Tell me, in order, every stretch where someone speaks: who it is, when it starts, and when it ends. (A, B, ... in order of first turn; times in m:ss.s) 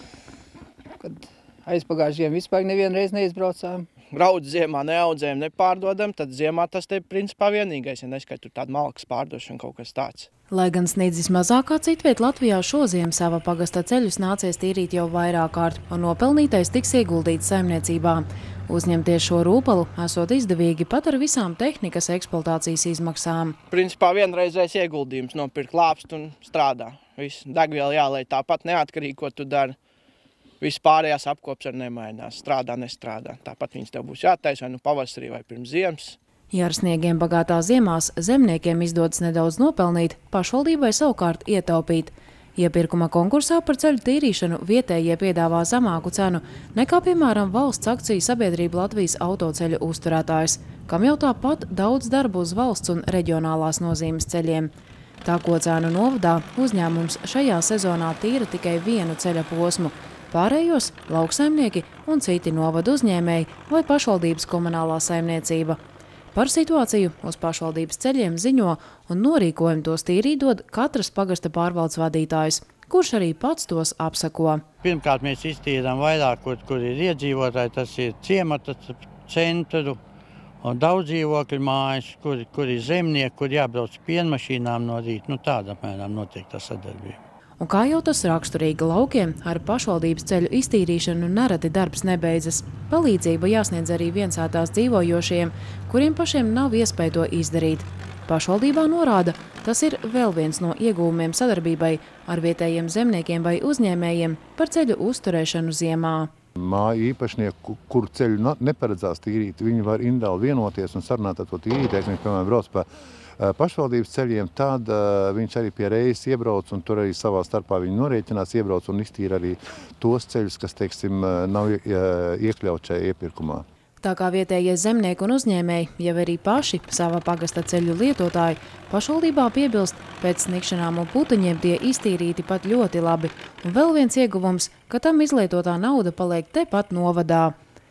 0:01.0-0:03.9 A
0:04.1-0:10.3 B
0:10.5-0:23.6 C
0:23.7-0:29.8 B
0:30.6-0:36.2 B
0:36.5-0:54.7 C
0:55.2-1:05.8 C
1:06.3-1:14.6 C
1:14.8-1:20.0 D
1:20.6-1:27.2 D
1:27.6-1:46.3 C
1:46.6-1:52.8 E
1:53.4-2:03.6 E
2:04.0-2:17.5 C